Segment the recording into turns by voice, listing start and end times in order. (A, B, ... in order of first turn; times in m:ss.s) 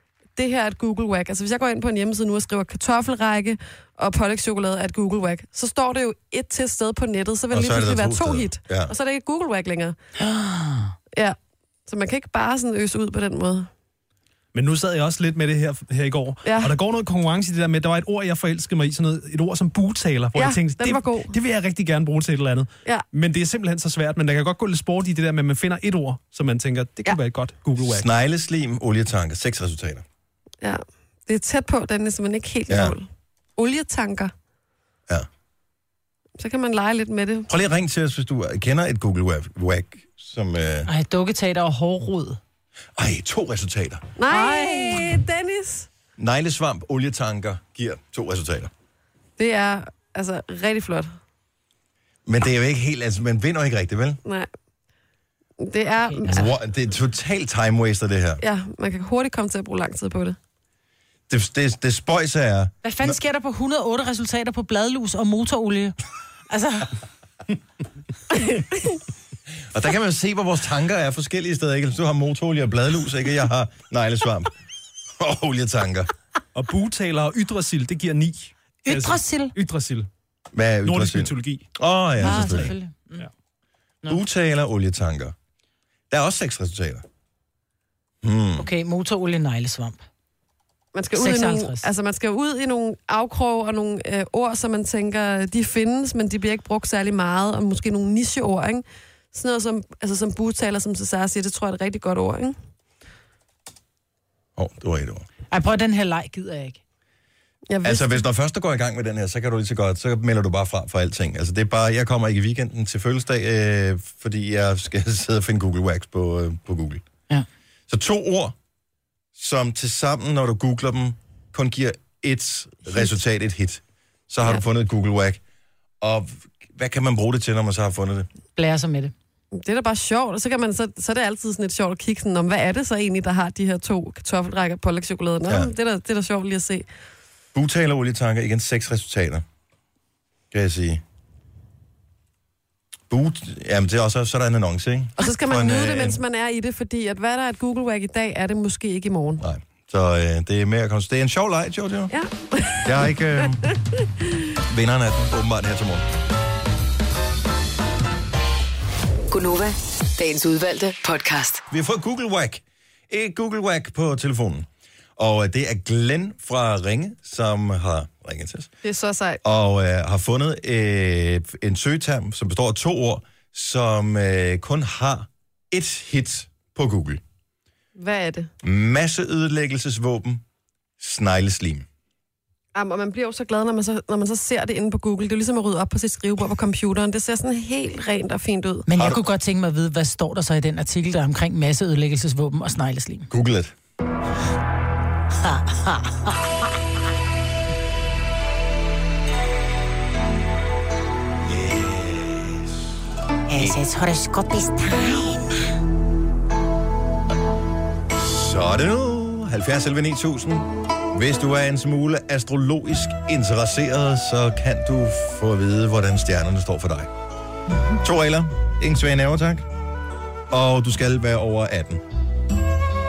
0:00.4-0:09.9 A
0:07.5-0:08.9 B
0:10.2-0:10.9 C
0:11.9-0:13.7 A
0:14.5-0:28.1 D
0:16.4-0:16.7 A
0:20.3-0:21.3 A
0:27.8-0:30.0 B
0:30.6-0:34.3 A
0:32.7-0:32.9 B
0:36.4-0:37.5 A
0:37.5-0:40.9 B
0:40.9-0:42.4 C
0:43.0-0:44.0 B
0:44.2-0:45.9 A
0:44.3-0:45.1 C
0:46.2-0:48.7 B
0:49.4-0:51.2 A
0:52.2-0:54.2 B
0:55.6-0:56.5 A
0:56.0-0:56.4 C
0:56.3-0:58.4 B
0:58.4-1:00.4 A
1:01.3-1:03.2 B
1:02.8-1:06.0 C
1:06.5-1:07.0 C
1:09.7-1:14.5 B
1:15.2-1:16.1 B
1:16.5-1:20.1 D
1:18.8-1:19.5 C
1:20.5-1:22.7 B
1:20.8-1:21.6 D
1:22.2-1:23.3 C
1:22.2-1:23.3 D
1:24.1-1:25.3 B
1:26.1-1:27.0 B
1:28.2-1:28.7 B
1:28.6-1:30.0 C
1:30.9-1:42.6 A
1:31.2-1:31.9 C
1:44.6-1:45.2 B
1:45.5-1:46.8 C
1:47.7-1:48.2 A
1:47.8-1:57.0 B
1:57.9-1:58.5 B
1:59.3-2:05.4 B
2:06.0-2:08.3 B
2:08.6-2:09.1 C
2:09.5-2:16.8 A
2:17.5-2:19.4 B
2:20.5-2:21.0 B
2:23.1-2:26.2 B
2:25.2-2:29.4 A
2:29.4-2:32.1 B
2:32.1-2:33.0 A
2:32.8-2:33.8 B
2:34.6-2:36.1 B
2:39.3-2:41.6 E
2:41.7-2:48.7 B
2:48.8-2:49.4 A
2:49.4-2:57.2 B
2:58.0-2:58.5 A
2:58.6-3:00.4 B
3:01.0-3:01.8 B
3:02.7-3:08.8 A
3:08.9-3:13.3 C
3:13.3-3:13.7 B
3:15.4-3:16.4 C
3:21.4-3:22.8 B
3:23.5-3:25.6 C
3:23.5-3:23.8 B
3:28.1-3:37.1 B
3:38.0-3:39.7 B
3:40.5-3:42.0 B